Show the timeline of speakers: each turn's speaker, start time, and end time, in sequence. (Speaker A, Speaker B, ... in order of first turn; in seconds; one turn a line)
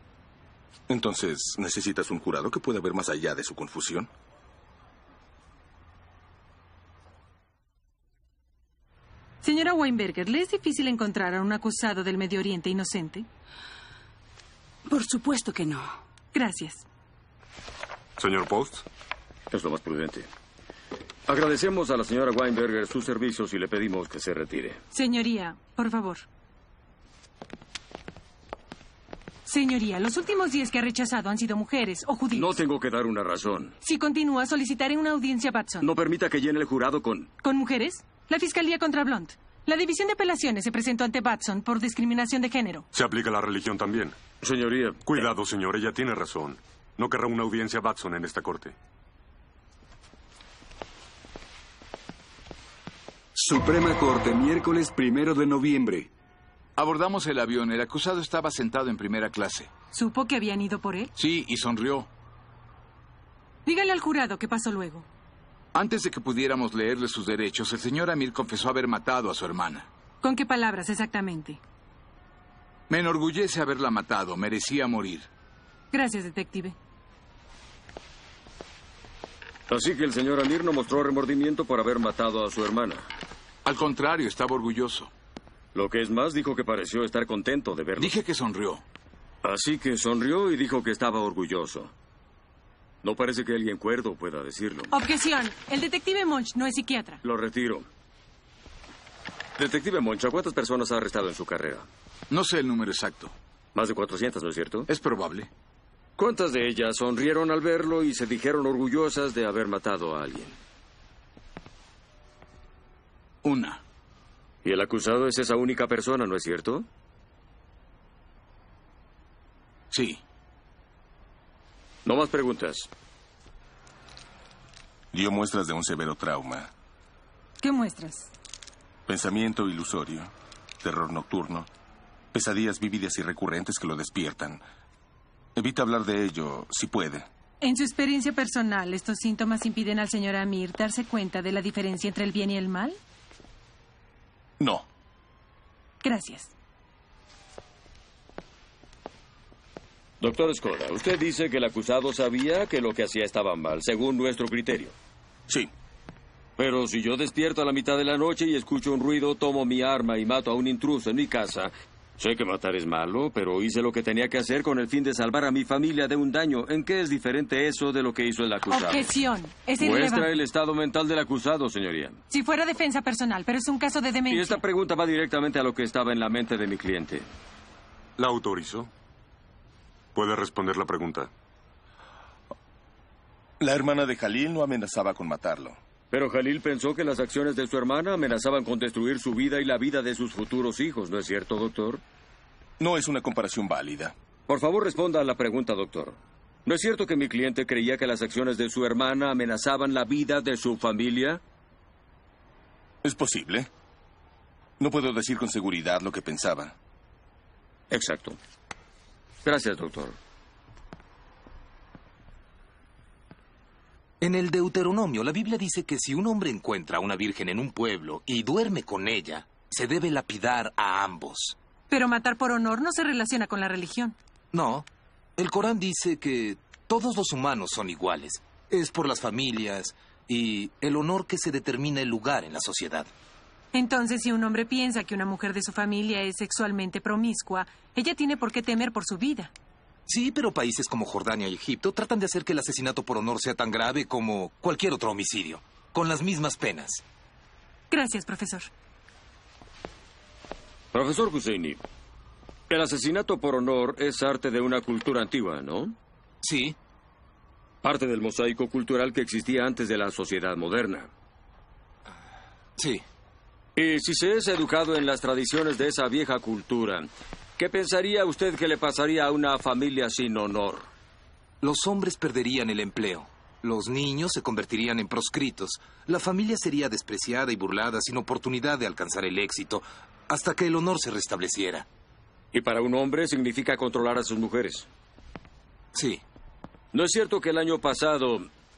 Speaker A: 0.9-4.1
Speaker B: 9.4-13.3
Speaker B: 16.3-16.8
Speaker C: 18.2-18.8
Speaker D: 19.5-20.3
Speaker D: 21.3-24.8
Speaker B: 24.9-26.2
Speaker B: 29.4-32.5
Speaker D: 32.3-33.7
Speaker B: 33.8-35.9
Speaker D: 35.8-37.3
Speaker B: 37.4-42.9
Speaker C: 42.9-44.1
Speaker D: 44.4-45.3
Speaker C: 45.0-48.7
Speaker E: 53.4-56.1
Speaker F: 56.8-59.7
Speaker B: 59.9-61.1
Speaker F: 61.1-62.1
Speaker B: 63.6-65.0
Speaker F: 65.7-69.9
Speaker B: 70.2-71.6
Speaker F: 72.9-75.3
Speaker B: 75.9-76.8
Speaker D: 79.7-83.0
Speaker F: 83.6-85.1
Speaker D: 85.7-88.1
Speaker F: 88.0-88.8
Speaker D: 89.4-91.9
Speaker D: 93.0-94.9
Speaker B: 94.9-97.2
Speaker D: 97.2-97.9
Speaker D: 99.6-101.8
Speaker F: 102.3-103.3
Speaker D: 103.7-104.9
Speaker F: 104.9-105.5
Speaker D: 106.2-110.6
Speaker F: 113.4-113.8
Speaker D: 114.6-116.9
Speaker F: 119.9-120.2
Speaker D: 122.0-122.9
Speaker A: 125.1-126.7
Speaker B: 127.6-128.3
Speaker A: 129.1-131.7
Speaker A: 132.3-134.6
Speaker A: 135.6-137.2
Speaker B: 137.6-143.0
Speaker A: 144.6-144.8
Speaker B: 146.0-146.5
Speaker D: 150.2-154.9
Speaker D: 156.6-169.1
Speaker B: 168.7-170.4
Speaker D: 169.8-172.2
Speaker B: 172.3-174.6
Speaker D: 174.3-177.3
Speaker C: 178.2-178.9
Speaker C: 180.1-181.3
Speaker A: 183.6-185.8
Speaker D: 186.1-192.0
Speaker A: 192.8-194.1
Speaker D: 194.5-201.4
Speaker A: 203.0-203.7
Speaker A: 204.8-206.7
Speaker D: 207.9-208.4
Speaker D: 209.4-210.2
Speaker G: 214.2-221.5
Speaker B: 221.9-224.2
Speaker G: 224.5-224.9
Speaker G: 225.4-233.1
Speaker B: 233.7-239.5
Speaker G: 240.1-247.0
Speaker B: 247.9-248.7
Speaker D: 250.9-251.8
Speaker D: 252.7-255.9
Speaker G: 256.4-256.7
Speaker D: 257.8-261.1
Speaker D: 263.8-270.9
Speaker G: 271.6-281.9
Speaker D: 282.5-284.9
Speaker G: 285.9-286.2
Speaker D: 286.9-288.5